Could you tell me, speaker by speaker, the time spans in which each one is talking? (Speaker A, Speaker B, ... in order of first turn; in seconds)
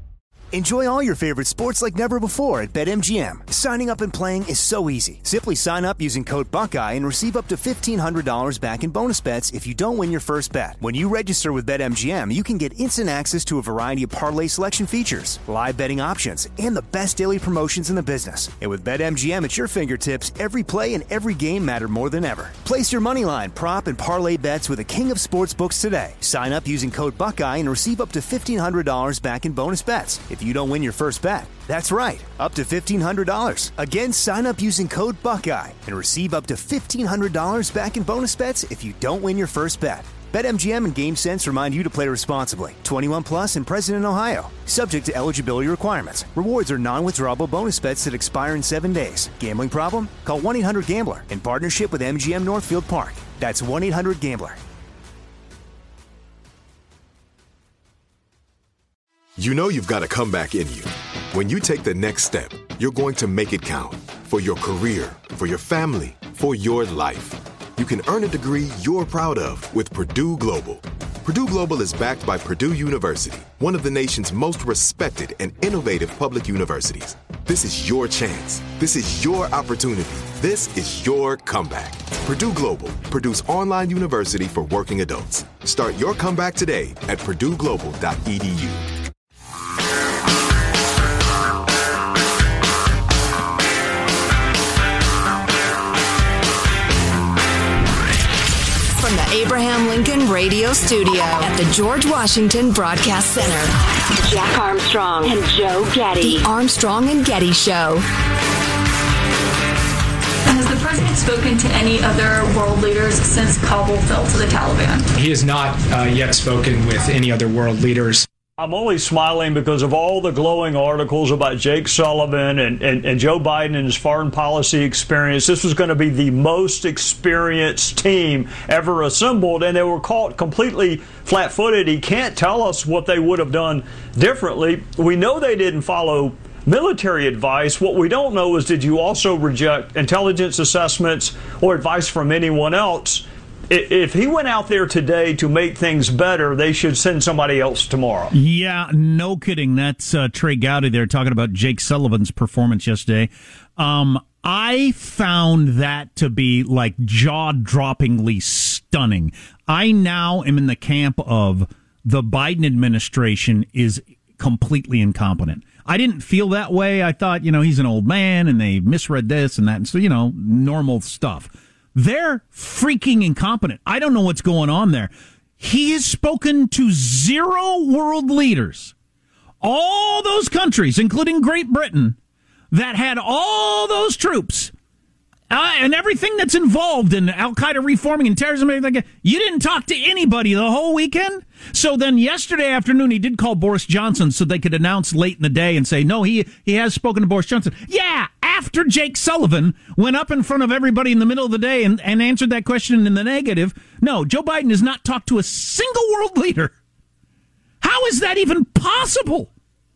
Speaker A: 0.5-54.6
Speaker B: 59.4-88.8
Speaker C: 98.9-103.7, 106.2-108.0
Speaker D: 104.2-106.5
Speaker E: 110.5-115.0
Speaker F: 115.2-118.2
Speaker G: 118.6-148.3
Speaker H: 148.3-178.9, 179.6-182.2, 182.7-184.7, 185.5-206.7, 207.8-209.5